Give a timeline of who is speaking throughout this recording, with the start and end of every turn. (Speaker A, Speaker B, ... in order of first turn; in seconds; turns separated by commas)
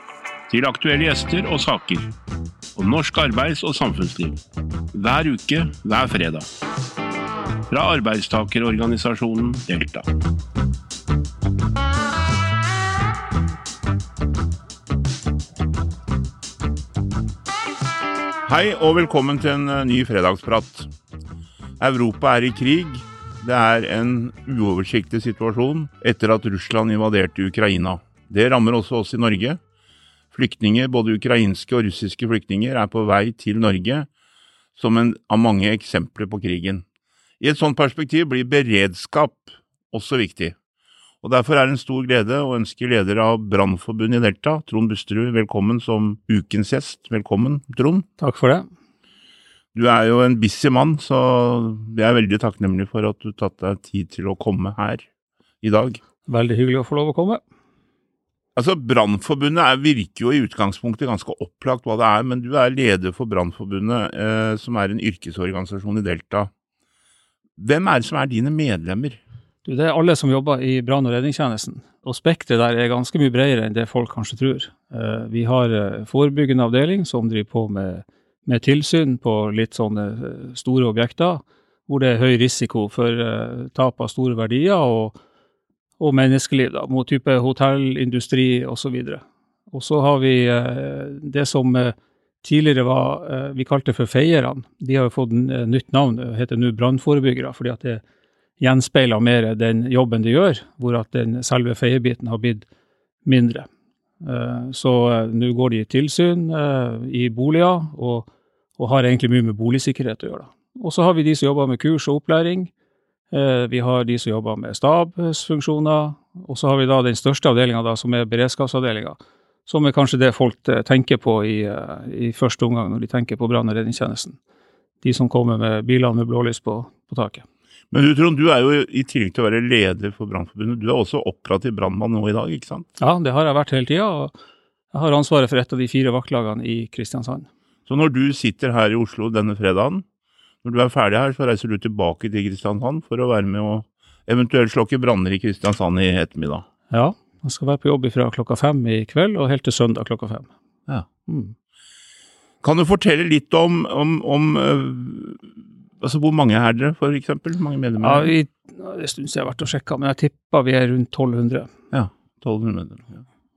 Speaker A: 0.5-2.1, Speaker A: 2.8-4.4, Speaker A: 4.9-6.5, Speaker A: 7.7-10.0, Speaker B: 18.4-20.9, Speaker B: 21.8-29.6, Speaker B: 30.3-34.1, Speaker B: 34.8-36.8, Speaker B: 37.4-40.5, Speaker B: 41.2-48.1, Speaker C: 48.2-48.7, Speaker B: 49.7-55.1, Speaker B: 55.6-56.0, Speaker C: 56.3-57.4, Speaker B: 58.5-66.5, Speaker B: 67.6-69.2, Speaker C: 69.6-85.2, Speaker C: 86.0-98.0, Speaker C: 98.6-102.7, Speaker C: 103.2-103.7, Speaker C: 104.2-112.7, Speaker C: 113.3-124.4, Speaker C: 125.0-127.4, Speaker B: 127.9-132.9, Speaker C: 133.0-134.3, Speaker C: 134.9-137.5, Speaker B: 137.9-140.0, Speaker B: 140.6-146.7, Speaker C: 146.9-150.5, Speaker C: 151.3-151.5, Speaker B: 152.6-158.3, Speaker C: 158.0-161.7, Speaker B: 161.9-163.2